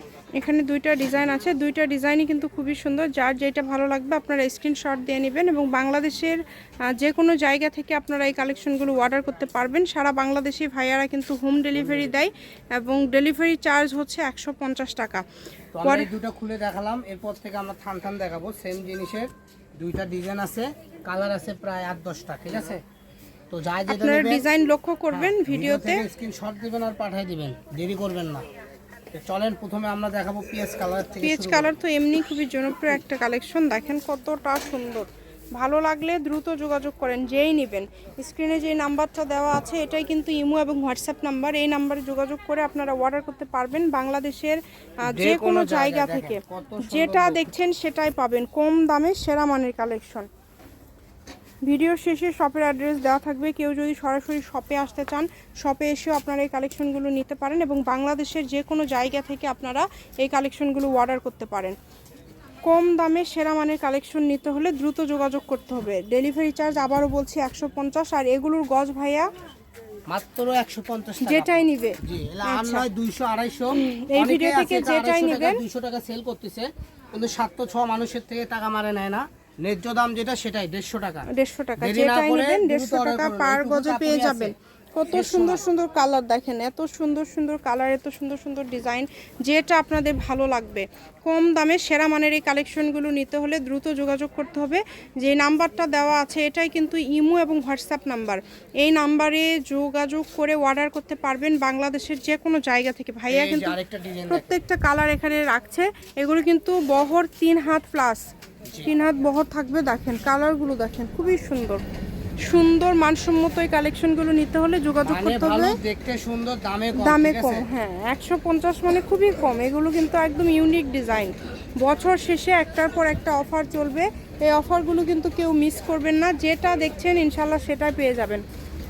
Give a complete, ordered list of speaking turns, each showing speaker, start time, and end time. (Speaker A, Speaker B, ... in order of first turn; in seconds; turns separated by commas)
Speaker A: 0.3-15.2, Speaker B: 15.7-22.8, Speaker A: 15.8-16.1, Speaker B: 23.5-24.4, Speaker A: 23.9-26.0, Speaker B: 25.1-28.4, Speaker B: 29.1-31.7, Speaker A: 31.2-50.3, Speaker B: 45.0-47.5, Speaker A: 51.6-61.8, Speaker A: 62.6-69.3, Speaker B: 70.1-81.3, Speaker A: 71.2-72.8, Speaker A: 73.7-75.6, Speaker A: 81.3-103.8, Speaker B: 81.8-84.5, Speaker B: 85.1-85.6, Speaker B: 103.3-104.6, Speaker A: 104.3-108.3, Speaker A: 108.8-111.8, Speaker A: 112.4-115.8, Speaker B: 115.0-117.6, Speaker A: 117.0-128.4